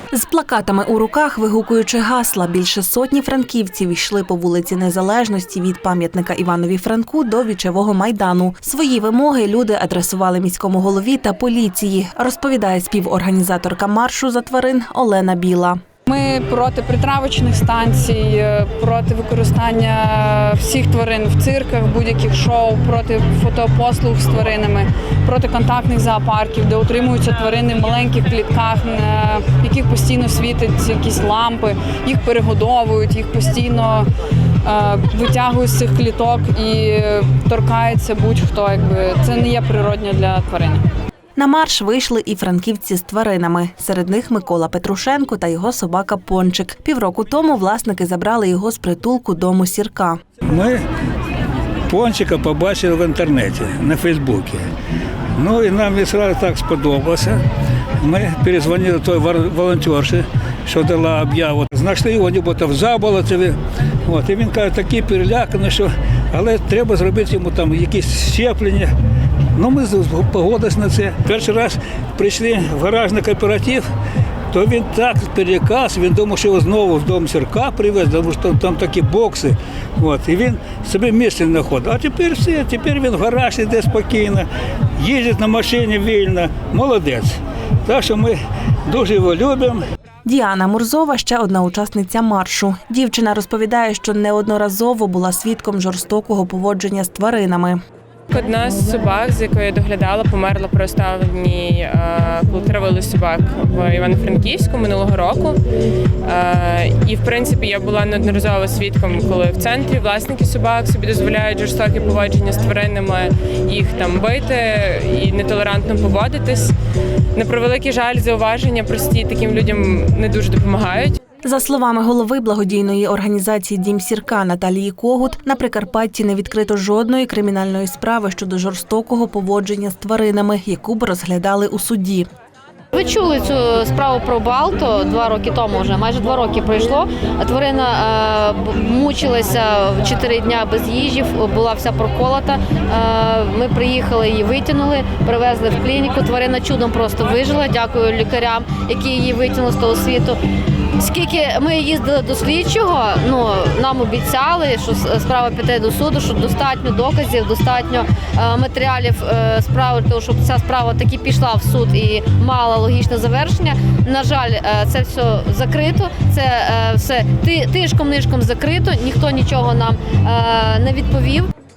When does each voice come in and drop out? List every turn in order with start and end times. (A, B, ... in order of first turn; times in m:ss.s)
0:00.1-0:15.8 A
0:16.0-0:34.1 B
0:34.6-0:40.8 B
0:41.4-0:50.2 A
0:50.5-0:50.8 C
0:51.9-0:54.6 C
0:55.4-0:57.4 C
0:58.0-1:08.9 C
1:09.6-1:13.8 C
1:14.5-1:24.5 C
1:25.0-1:28.4 C
1:28.9-1:29.8 C
1:30.2-1:37.8 A
1:38.3-1:45.6 D
1:46.2-1:56.7 D
1:57.4-2:01.2 D
2:01.4-2:12.2 A
2:12.9-2:30.4 E
2:31.0-2:51.5 E